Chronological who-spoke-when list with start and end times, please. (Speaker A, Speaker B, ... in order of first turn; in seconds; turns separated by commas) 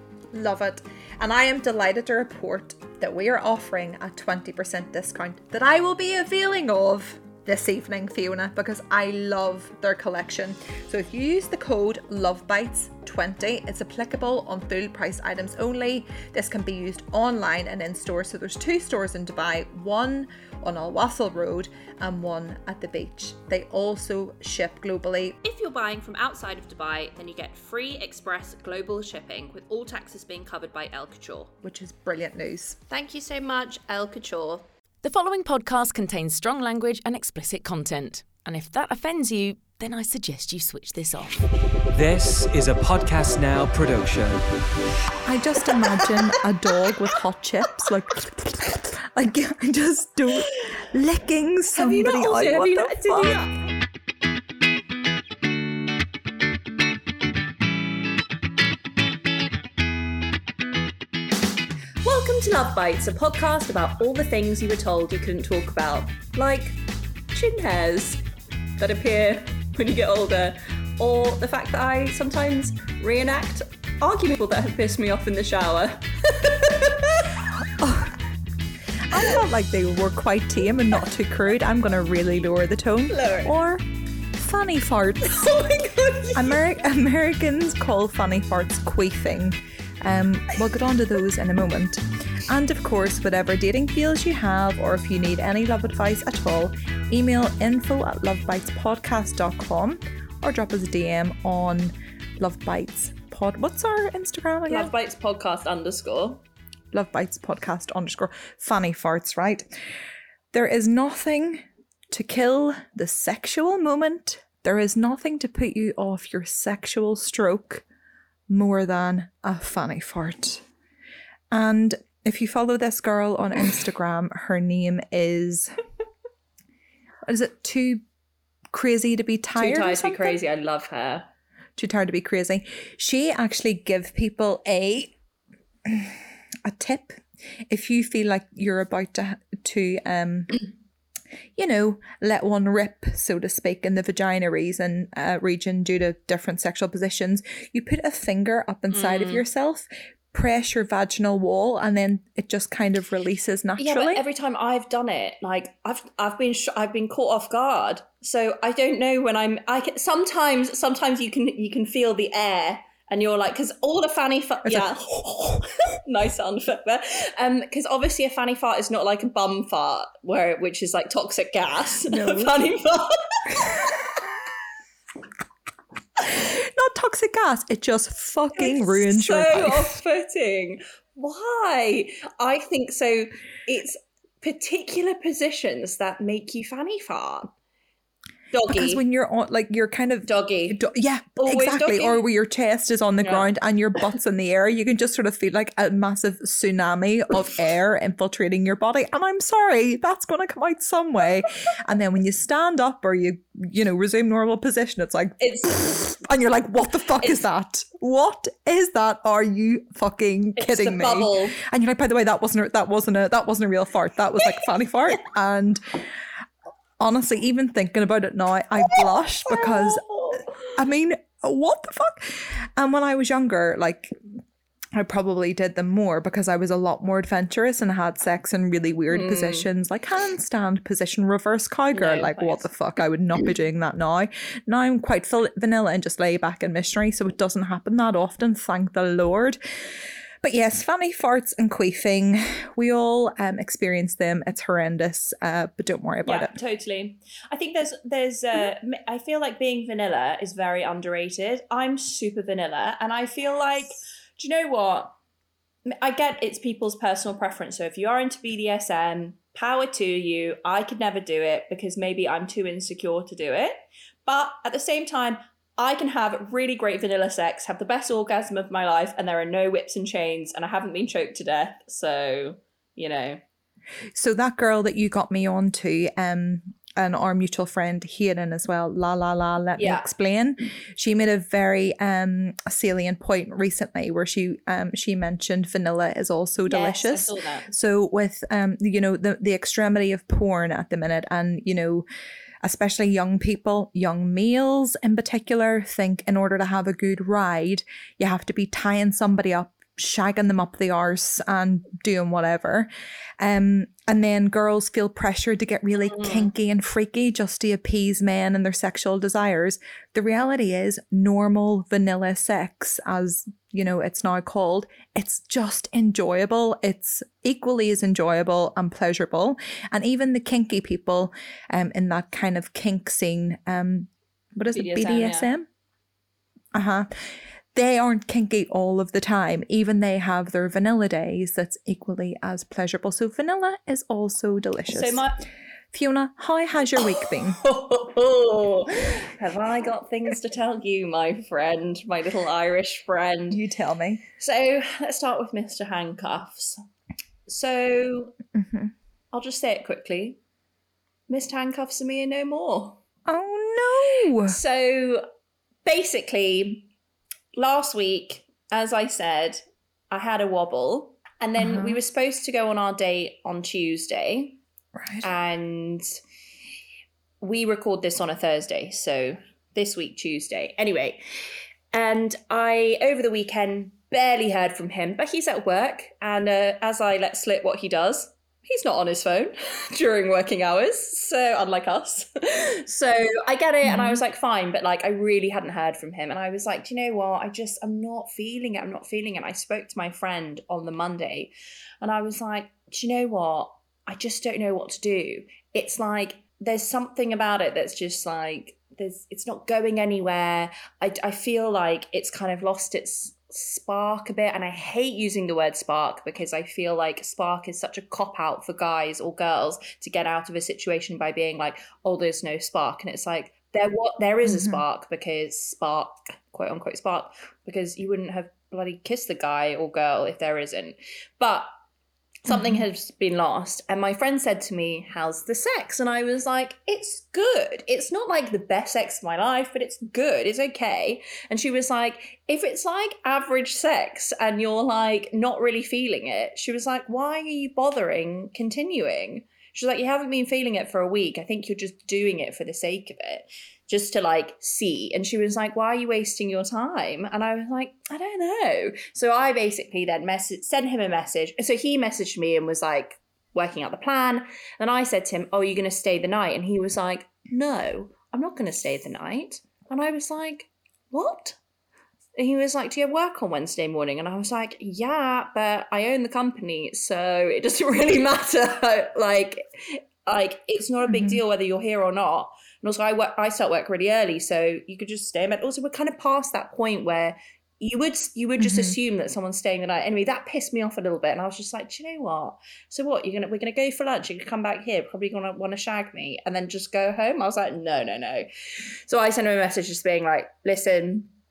Speaker A: 0.3-25.4, Speaker B: 25.4-31.5, Speaker A: 31.6-32.8, Speaker B: 32.9-34.7, Speaker C: 35.0-41.4, Speaker D: 41.9-44.4, Speaker A: 45.3-53.4, Speaker B: 51.7-53.6, Speaker B: 62.0-68.2, Speaker B: 68.8-77.3, Speaker A: 77.8-78.2, Speaker A: 79.1-85.6, Speaker B: 83.1-83.5, Speaker B: 85.3-86.6, Speaker A: 86.3-104.9, Speaker B: 104.7-106.4, Speaker A: 106.9-109.7, Speaker A: 110.5-117.8, Speaker A: 118.5-120.7, Speaker A: 121.5-125.7, Speaker A: 127.3-128.0, Speaker A: 128.7-130.4, Speaker B: 129.6-131.3, Speaker A: 131.8-135.1, Speaker A: 135.8-140.6, Speaker A: 141.6-154.2, Speaker B: 148.9-149.5, Speaker B: 153.8-174.1, Speaker A: 164.7-165.6, Speaker A: 172.1-172.6, Speaker A: 176.3-179.9, Speaker B: 178.6-187.5, Speaker B: 188.5-189.0, Speaker A: 188.7-216.1, Speaker B: 190.3-190.8, Speaker B: 191.4-192.2, Speaker B: 193.2-193.5, Speaker B: 205.4-206.0, Speaker B: 210.6-211.6, Speaker A: 217.0-224.2, Speaker B: 218.9-220.7, Speaker A: 224.9-239.6, Speaker B: 229.1-229.7, Speaker B: 231.9-232.7, Speaker A: 240.4-246.5, Speaker B: 246.2-255.2, Speaker B: 255.9-273.4, Speaker A: 274.1-292.1, Speaker B: 279.8-280.1, Speaker B: 286.7-287.7, Speaker A: 292.6-325.7, Speaker B: 306.0-306.5, Speaker B: 324.7-325.5, Speaker A: 326.7-327.1, Speaker A: 327.7-335.2, Speaker B: 334.9-335.4, Speaker A: 335.9-337.6, Speaker B: 337.1-343.6, Speaker A: 343.5-344.2, Speaker B: 344.4-346.8, Speaker B: 347.5-348.4, Speaker A: 348.5-348.9, Speaker B: 349.3-350.4, Speaker B: 351.3-353.0, Speaker A: 353.3-354.6, Speaker B: 354.4-355.2, Speaker B: 355.9-356.9, Speaker B: 357.6-364.6, Speaker A: 361.6-362.0, Speaker A: 364.9-365.3, Speaker B: 365.2-366.1, Speaker B: 367.4-371.2, Speaker B: 371.9-421.7, Speaker A: 383.9-384.2, Speaker A: 414.5-414.8, Speaker B: 422.4-461.6, Speaker A: 422.5-422.8, Speaker B: 462.4-488.5, Speaker A: 471.1-471.4, Speaker A: 478.6-478.9, Speaker B: 489.1-491.3